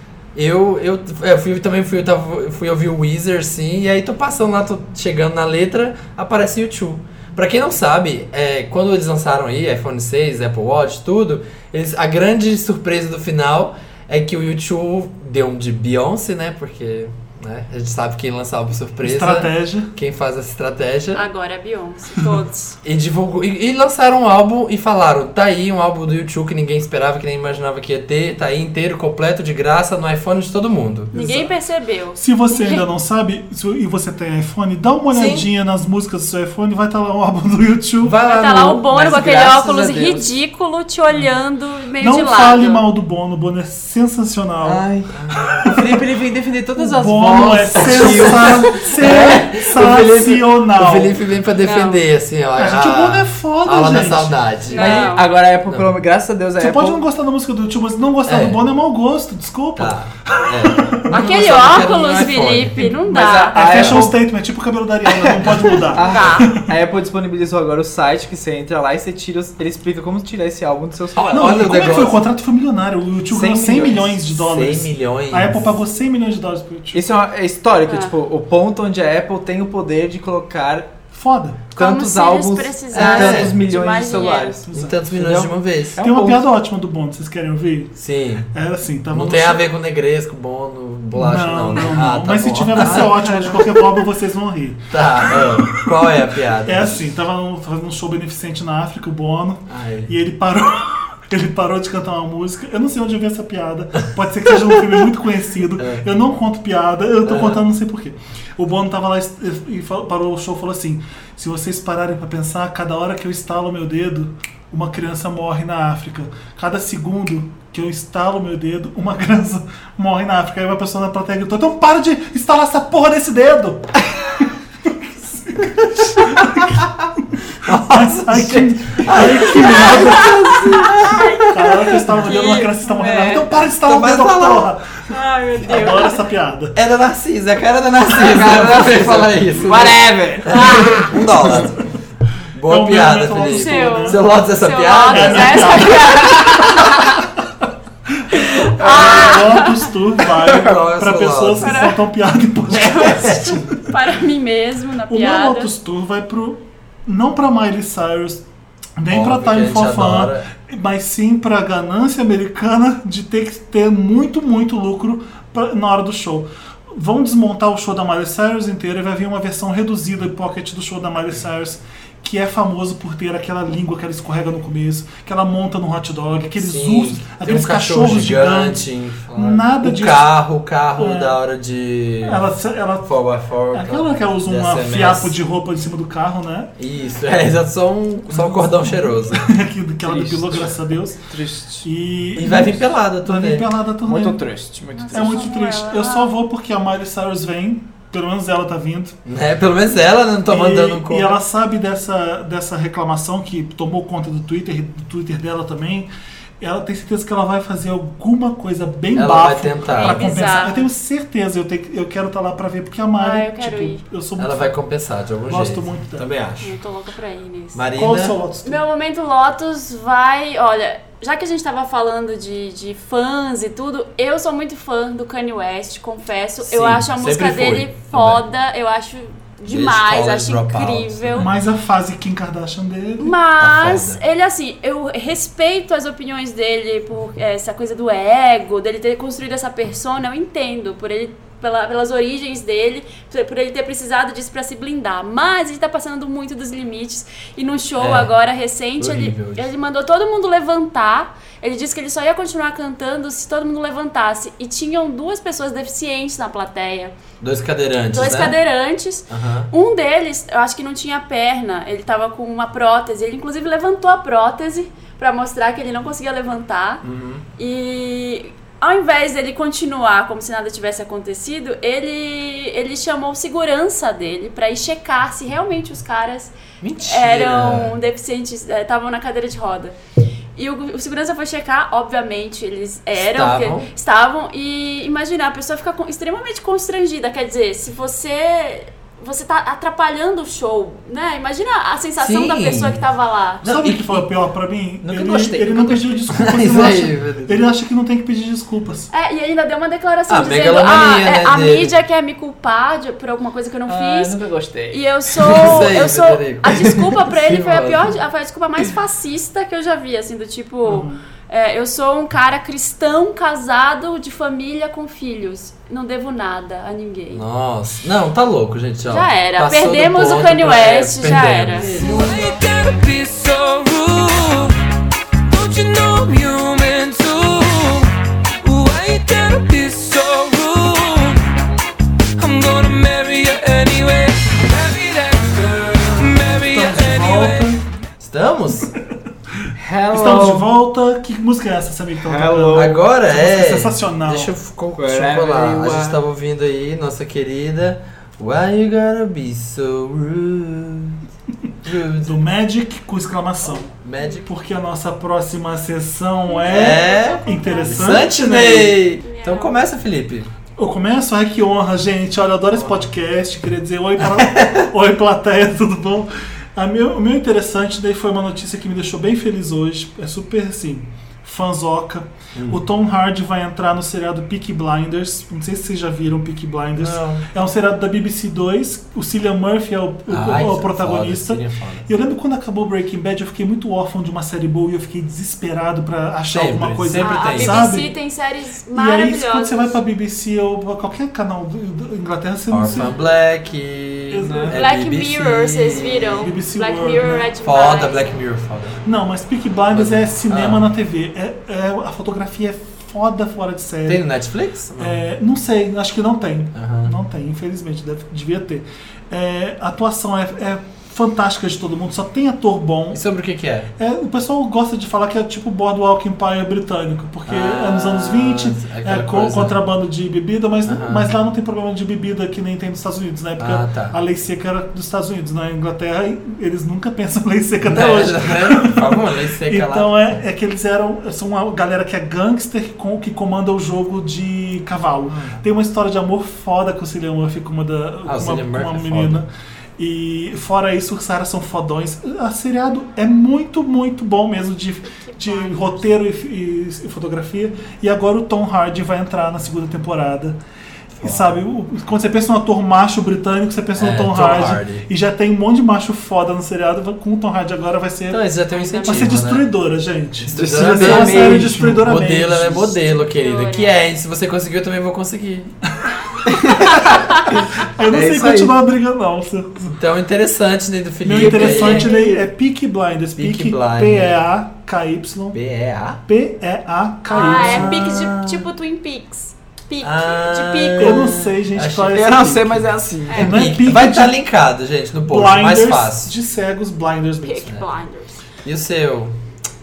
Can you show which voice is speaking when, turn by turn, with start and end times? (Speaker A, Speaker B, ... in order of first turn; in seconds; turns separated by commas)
Speaker A: 0.3-21.2, Speaker B: 19.0-19.9, Speaker C: 21.1-22.8, Speaker A: 22.8-31.1, Speaker B: 31.1-31.5, Speaker C: 31.1-32.9, Speaker B: 32.2-38.2, Speaker A: 35.1-35.5, Speaker A: 38.0-38.7, Speaker D: 38.1-40.3, Speaker C: 38.2-42.9, Speaker B: 42.0-44.8, Speaker D: 44.6-49.5, Speaker A: 45.1-45.7, Speaker B: 45.5-46.0, Speaker B: 46.8-51.2, Speaker A: 47.8-55.1, Speaker C: 51.6-52.0, Speaker B: 52.6-54.4, Speaker C: 54.7-55.3, Speaker D: 54.7-57.0, Speaker A: 55.7-55.9, Speaker B: 56.6-61.1, Speaker A: 58.2-58.6, Speaker A: 59.8-63.0, Speaker C: 61.1-64.0, Speaker D: 63.0-64.2, Speaker B: 63.5-66.7, Speaker A: 65.4-65.7, Speaker D: 65.6-71.9, Speaker C: 65.9-66.5, Speaker A: 71.1-72.2, Speaker B: 71.3-77.0, Speaker D: 73.3-74.1, Speaker A: 74.0-75.7, Speaker D: 76.9-80.9, Speaker C: 77.9-78.1, Speaker B: 81.1-81.6, Speaker D: 81.7-86.4, Speaker C: 81.8-84.6, Speaker A: 82.9-83.6, Speaker A: 84.7-86.0, Speaker B: 86.0-88.0, Speaker A: 88.0-88.5, Speaker B: 88.5-89.6, Speaker A: 89.1-93.5, Speaker B: 91.1-95.9, Speaker D: 92.8-93.6, Speaker A: 94.9-97.1, Speaker B: 96.7-126.8, Speaker A: 99.7-100.2, Speaker A: 105.8-106.1, Speaker A: 107.2-107.7, Speaker A: 126.2-127.1, Speaker B: 127.5-130.9, Speaker A: 127.6-131.4, Speaker C: 129.9-133.5, Speaker B: 131.5-135.0, Speaker A: 133.7-134.7, Speaker C: 135.1-136.2, Speaker B: 135.6-136.8, Speaker A: 136.8-141.8, Speaker D: 138.1-140.9, Speaker C: 140.5-141.2, Speaker A: 142.5-146.1, Speaker B: 142.7-144.2, Speaker C: 143.3-147.1, Speaker B: 145.1-146.4, Speaker B: 148.1-153.8, Speaker C: 148.3-149.9, Speaker A: 150.4-151.9, Speaker C: 151.6-152.1, Speaker C: 152.7-155.7, Speaker A: 152.7-153.7, Speaker B: 155.1-158.4, Speaker B: 159.0-180.3, Speaker A: 159.1-160.5, Speaker A: 176.6-182.4, Speaker B: 181.0-181.4, Speaker B: 182.2-183.2, Speaker A: 183.0-185.4, Speaker B: 183.7-186.7, Speaker A: 186.8-189.5, Speaker B: 188.3-191.2, Speaker D: 190.0-190.7, Speaker D: 191.3-191.9, Speaker B: 191.8-194.4, Speaker A: 192.3-193.7, Speaker D: 194.0-195.5, Speaker C: 195.0-196.3, Speaker B: 195.1-199.2, Speaker A: 199.3-201.4, Speaker B: 200.5-206.1, Speaker B: 206.6-214.7, Speaker A: 209.1-210.3, Speaker C: 209.9-210.9, Speaker C: 213.2-214.0, Speaker A: 214.4-216.8, Speaker B: 215.5-216.2, Speaker C: 216.6-217.8, Speaker A: 217.7-218.4, Speaker B: 217.9-218.8, Speaker C: 218.6-231.5, Speaker A: 226.6-228.4, Speaker A: 229.7-231.5, Speaker B: 231.4-233.3, Speaker C: 233.2-257.1, Speaker A: 233.6-234.2, Speaker A: 248.0-248.3, Speaker A: 249.0-249.7, Speaker A: 257.4-258.6, Speaker C: 258.1-267.0, Speaker A: 259.3-259.7, Speaker A: 267.0-267.4, Speaker C: 267.6-279.9, Speaker A: 276.8-278.0, Speaker C: 280.6-293.6, Speaker A: 283.2-283.9, Speaker A: 292.2-293.0, Speaker A: 293.6-294.3, Speaker B: 293.6-299.1, Speaker A: 295.1-297.7, Speaker D: 295.6-296.0, Speaker C: 299.1-304.4, Speaker A: 300.3-301.9, Speaker D: 303.9-305.0, Speaker C: 304.9-317.4, Speaker A: 305.4-308.2, Speaker B: 310.9-311.2, Speaker A: 317.3-322.6, Speaker C: 319.1-321.9, Speaker E: 321.8-324.8, Speaker E: 325.5-328.1, Speaker E: 328.6-331.4, Speaker E: 332.4-337.8, Speaker B: 336.7-337.8, Speaker A: 338.2-338.9, Speaker D: 339.8-340.7, Speaker B: 340.1-344.5, Speaker D: 342.2-343.0, Speaker A: 342.7-351.2, Speaker D: 345.0-346.2, Speaker A: 351.8-352.4, Speaker B: 352.2-353.9, Speaker A: 353.9-354.5, Speaker B: 354.4-359.0, Speaker C: 356.5-358.5, Speaker A: 356.6-360.5, Speaker C: 359.2-359.8, Speaker B: 360.8-388.1, Speaker A: 362.7-363.1, Speaker A: 364.2-364.9, Speaker A: 372.6-372.8, Speaker A: 376.9-377.5, Speaker A: 380.3-382.1, Speaker A: 386.5-388.0, Speaker C: 387.1-390.0, Speaker B: 388.9-393.2, Speaker A: 392.7-396.5, Speaker B: 394.3-394.8, Speaker D: 394.4-394.8, Speaker C: 394.7-398.4, Speaker B: 396.4-397.5, Speaker A: 397.6-399.0, Speaker B: 399.1-404.2, Speaker A: 399.9-400.9, Speaker A: 404.1-405.2, Speaker B: 405.0-413.2, Speaker A: 406.8-407.1, Speaker A: 413.1-413.9, Speaker B: 414.0-450.6, Speaker A: 417.5-419.8, Speaker A: 420.9-421.3, Speaker A: 423.6-424.2, Speaker A: 427.8-430.1, Speaker A: 438.2-439.4, Speaker C: 445.1-446.2, Speaker B: 451.2-458.5, Speaker A: 451.2-451.6, Speaker A: 454.0-455.1, Speaker A: 458.3-459.7, Speaker C: 458.7-459.5, Speaker B: 459.0-463.1, Speaker A: 460.4-465.7, Speaker D: 460.5-462.0, Speaker C: 463.2-463.9, Speaker D: 466.5-466.9, Speaker D: 467.5-468.8, Speaker B: 467.8-470.0, Speaker A: 469.9-472.1, Speaker B: 471.2-475.6, Speaker C: 471.4-472.4, Speaker A: 473.4-474.4, Speaker A: 475.5-476.2, Speaker B: 476.3-478.6, Speaker C: 477.3-481.4, Speaker A: 477.4-477.9, Speaker A: 480.0-482.4, Speaker B: 481.0-484.4, Speaker D: 482.1-483.5, Speaker C: 483.3-483.6, Speaker A: 483.4-486.3, Speaker B: 485.2-487.8, Speaker C: 487.4-488.4, Speaker A: 488.6-489.4